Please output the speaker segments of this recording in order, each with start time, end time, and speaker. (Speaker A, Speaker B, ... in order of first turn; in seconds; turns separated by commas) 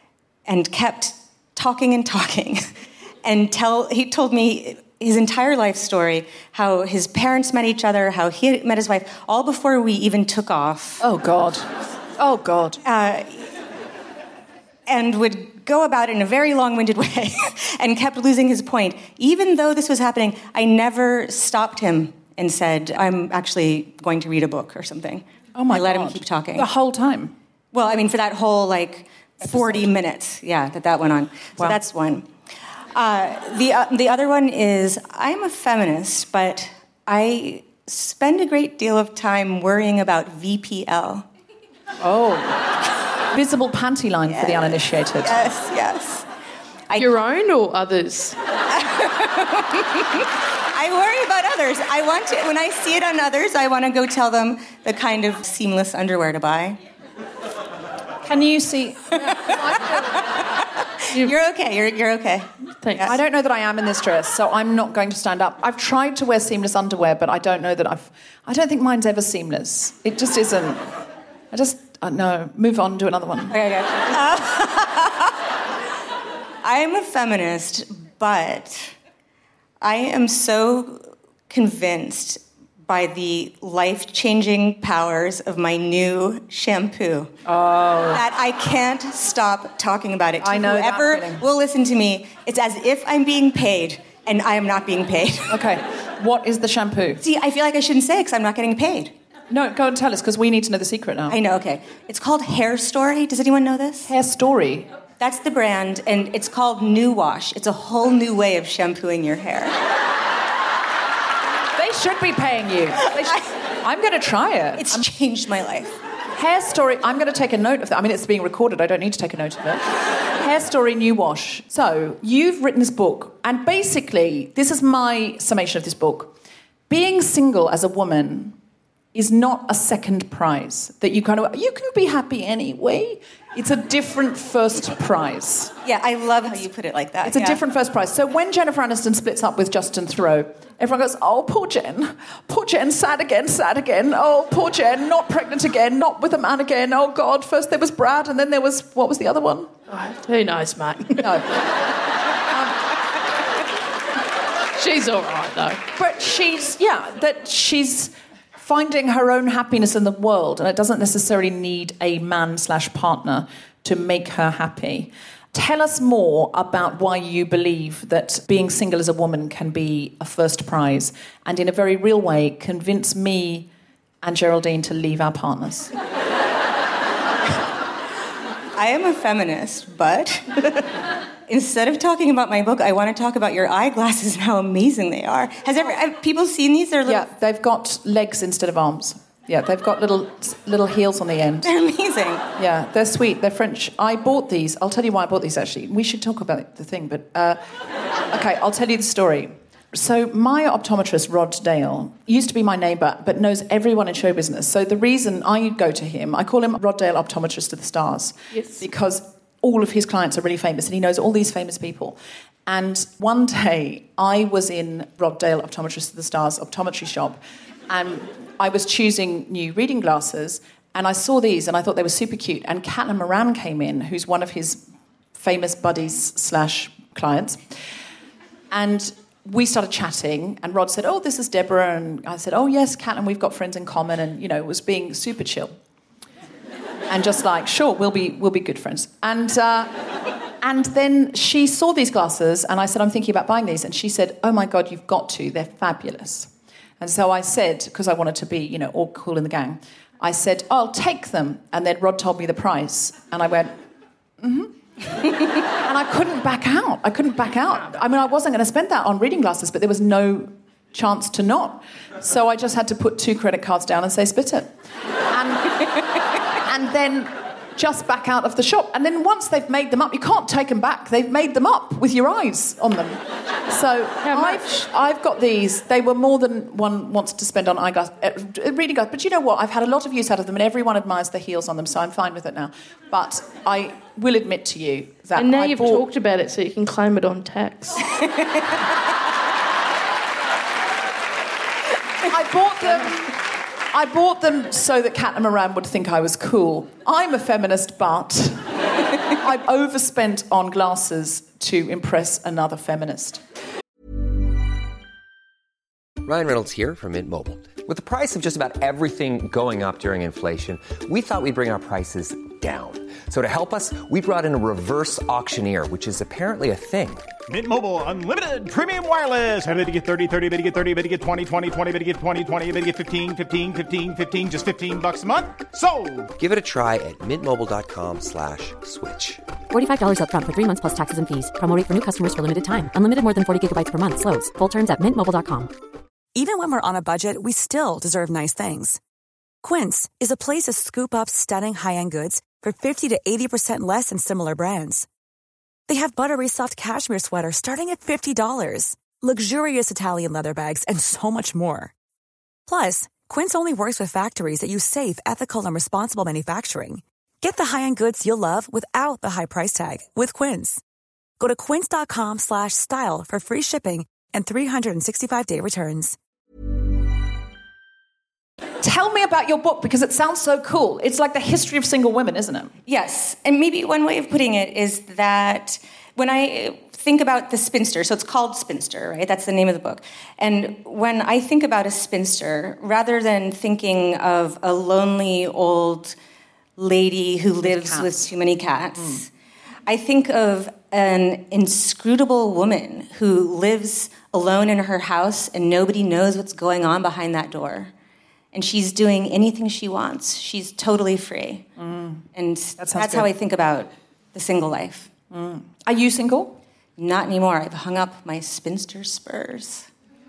Speaker A: 0.5-2.7, Speaker A: 3.2-11.0, Speaker B: 11.0-12.8, Speaker A: 12.8-13.5, Speaker A: 14.9-26.7, Speaker B: 25.6-27.4, Speaker A: 27.7-32.3, Speaker B: 29.5-29.8, Speaker A: 32.9-41.3, Speaker B: 42.0-42.7, Speaker B: 43.3-45.4, Speaker A: 44.3-46.3, Speaker C: 47.0-48.4, Speaker A: 48.7-56.8, Speaker B: 58.2-60.2, Speaker A: 59.2-63.2, Speaker C: 62.8-63.1, Speaker B: 63.0-70.9, Speaker B: 71.5-73.6, Speaker A: 73.5-75.4, Speaker A: 76.6-79.0, Speaker A: 79.8-87.3, Speaker B: 87.5-88.2, Speaker A: 88.1-95.6, Speaker B: 90.4-91.4, Speaker B: 95.5-97.2, Speaker A: 97.2-99.1, Speaker B: 99.5-101.4, Speaker A: 101.3-104.1, Speaker B: 104.1-104.9, Speaker A: 105.2-109.8, Speaker B: 111.8-115.0, Speaker A: 113.2-113.5, Speaker A: 114.8-116.0, Speaker B: 116.4-126.4, Speaker B: 126.9-128.6, Speaker B: 129.1-135.7, Speaker A: 135.8-137.6, Speaker B: 137.2-149.7, Speaker C: 149.9-151.4, Speaker B: 151.2-151.5, Speaker C: 154.8-155.8, Speaker B: 156.0-173.7, Speaker B: 174.2-175.9, Speaker A: 178.8-187.3, Speaker B: 187.1-191.7, Speaker A: 191.6-192.5, Speaker B: 192.6-197.6, Speaker B: 198.3-224.8, Speaker B: 225.3-227.7, Speaker B: 228.7-235.7, Speaker B: 237.1-239.9, Speaker B: 240.6-253.8, Speaker B: 254.4-254.7, Speaker B: 255.8-264.7, Speaker B: 265.3-265.8, Speaker B: 266.6-286.0, Speaker C: 274.3-274.8, Speaker C: 285.4-288.0, Speaker A: 288.2-288.6, Speaker B: 292.2-293.4, Speaker B: 293.9-298.7, Speaker B: 299.3-303.4, Speaker D: 306.2-317.3, Speaker E: 317.5-326.3, Speaker D: 326.4-329.4, Speaker F: 329.7-335.7, Speaker G: 336.4-339.0, Speaker G: 339.6-345.1, Speaker G: 345.9-351.9, Speaker G: 352.7-360.8, Speaker G: 361.4-366.1, Speaker B: 368.8-372.7, Speaker A: 372.9-386.1, Speaker A: 386.8-389.3, Speaker B: 387.6-388.3, Speaker B: 389.0-389.2, Speaker A: 389.9-397.9, Speaker A: 398.5-401.7, Speaker B: 401.8-402.2, Speaker A: 402.3-405.1, Speaker B: 402.8-403.3, Speaker B: 405.3-406.6, Speaker A: 407.0-409.9